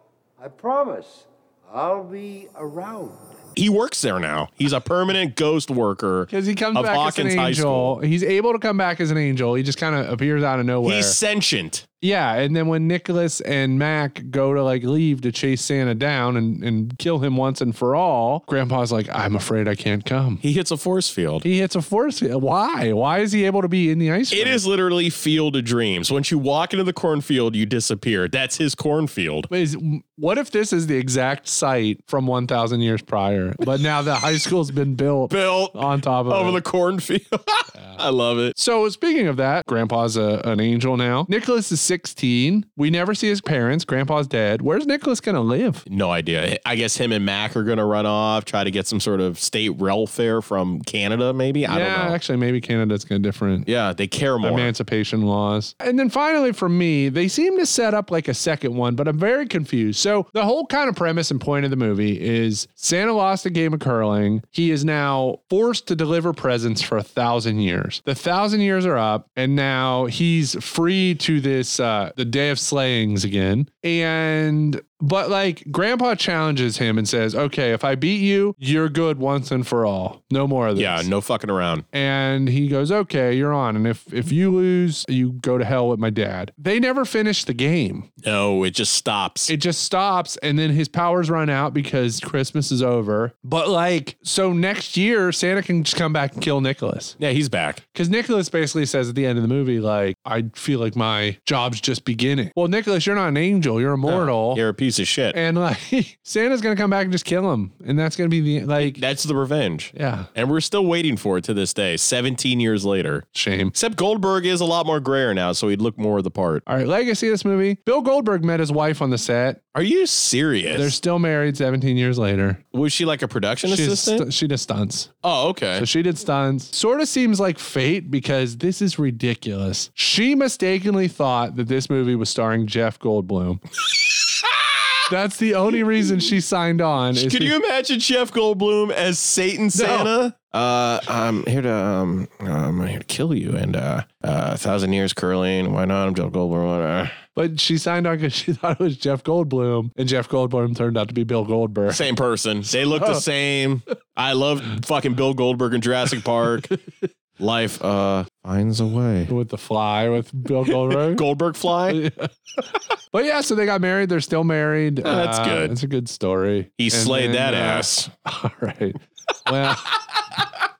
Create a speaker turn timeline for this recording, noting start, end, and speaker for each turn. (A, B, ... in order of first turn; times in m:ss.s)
0:00.4-0:03.3 A
0:03.6-0:08.0 B
0:06.3-0:11.2 C
0:10.8-0:11.8 B
0:12.0-0:20.4 C
0:20.4-0:21.4 B
0:21.4-0:24.6 C
0:24.3-0:29.5 B
0:29.5-0:36.6 C
0:35.3-0:38.5 B
0:37.7-0:38.0 C
0:38.6-0:45.8 C
0:45.9-0:52.2 B
0:51.7-0:53.7 C
0:53.7-0:54.7 B
0:54.4-1:21.1 C
1:20.8-1:21.8 B
1:21.9-1:28.1 C
1:28.2-1:29.5 B
1:29.5-1:37.2 C
1:37.2-1:37.8 B
1:38.0-1:44.6 C
1:44.0-1:45.4 B
1:45.3-1:49.0 C
1:48.8-1:56.6 B
1:49.9-1:50.3 C
1:53.3-1:53.7 C
1:56.7-1:59.6 C
1:59.8-2:00.9 B
2:00.7-2:02.6 C
2:02.7-2:04.3 B
2:03.7-2:05.1 C
2:05.2-2:05.9 B
2:05.8-2:13.6 C
2:15.1-2:17.6 C
2:17.1-2:27.2 B
2:19.8-2:20.1 C
2:27.4-2:32.0 C
2:31.9-2:36.7 B
2:32.9-2:33.2 C
2:37.4-2:39.3 B
2:39.3-2:41.2 C
2:40.9-2:42.0 B
2:41.9-2:42.3 C
2:43.1-2:50.0 C
2:45.0-2:45.7 B
2:46.8-2:48.1 B